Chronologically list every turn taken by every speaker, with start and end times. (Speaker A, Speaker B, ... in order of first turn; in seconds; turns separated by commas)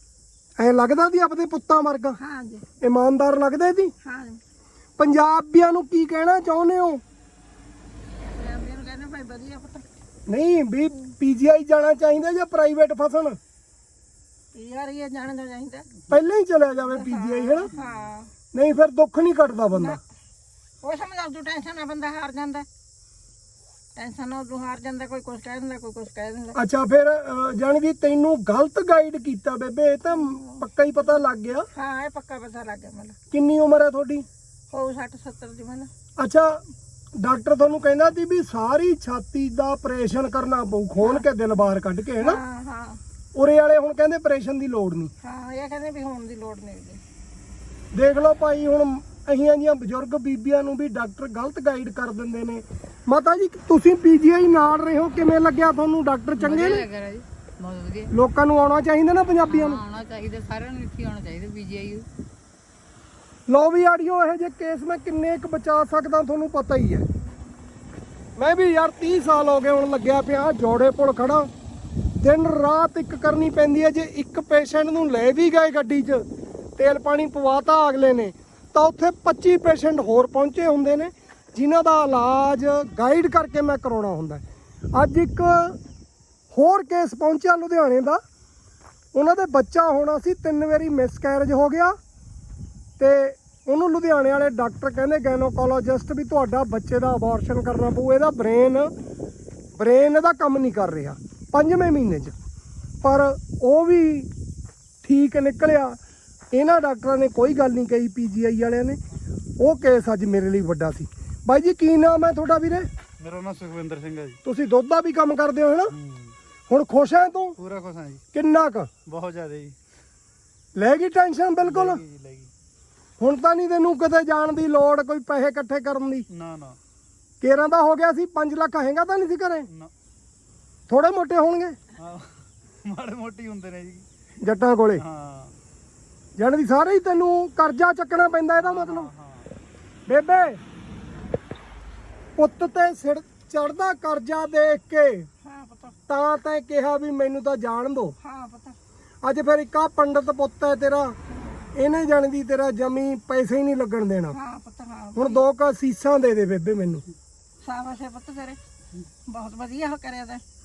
Speaker A: 0.6-2.2, Speaker B: 2.2-2.7, Speaker A: 2.8-3.9, Speaker B: 4.0-4.4, Speaker A: 5.0-7.0, Speaker B: 8.2-9.8, Speaker A: 10.3-13.4, Speaker B: 14.5-15.9, Speaker A: 16.1-17.7, Speaker B: 16.9-18.3, Speaker A: 18.5-20.0, Speaker B: 19.7-20.0, Speaker B: 20.8-22.7, Speaker B: 23.9-26.6, Speaker A: 26.6-31.7, Speaker B: 30.1-30.6, Speaker B: 31.8-33.2, Speaker A: 33.3-34.3, Speaker B: 34.7-35.9, Speaker A: 36.2-36.6, Speaker A: 37.2-42.4, Speaker B: 42.2-43.0, Speaker A: 43.4-45.1, Speaker B: 45.2-47.0, Speaker A: 47.9-56.9, Speaker C: 56.4-58.1, Speaker A: 58.1-59.8, Speaker C: 59.5-62.1, Speaker A: 63.5-67.1, Speaker A: 68.4-71.5, Speaker A: 72.2-76.2, Speaker A: 76.8-84.4, Speaker A: 85.0-85.8, Speaker A: 86.5-88.2, Speaker A: 89.2-92.0, Speaker A: 93.0-98.9, Speaker A: 99.8-102.3, Speaker A: 103.0-104.3, Speaker A: 105.0-106.0, Speaker A: 106.5-109.0, Speaker A: 109.6-112.9, Speaker D: 113.2-114.4, Speaker A: 114.4-115.9, Speaker D: 115.9-116.3, Speaker A: 116.7-117.6, Speaker D: 117.6-118.2, Speaker A: 118.3-118.9, Speaker D: 119.1-119.8, Speaker A: 120.8-122.0, Speaker D: 121.6-122.5, Speaker A: 123.2-126.3, Speaker D: 126.3-126.8, Speaker A: 127.4-129.7, Speaker A: 130.9-131.8, Speaker D: 132.0-134.1, Speaker A: 134.4-135.0, Speaker D: 135.0-135.6, Speaker A: 136.4-139.1, Speaker D: 138.6-139.5, Speaker A: 140.1-140.6, Speaker A: 142.4-145.3, Speaker B: 145.4-146.0, Speaker A: 146.1-148.2, Speaker B: 148.2-148.8, Speaker A: 149.2-151.2, Speaker B: 151.3-151.7, Speaker A: 151.8-154.4, Speaker B: 154.3-155.4, Speaker A: 155.2-157.0, Speaker B: 157.6-158.6, Speaker B: 159.3-160.4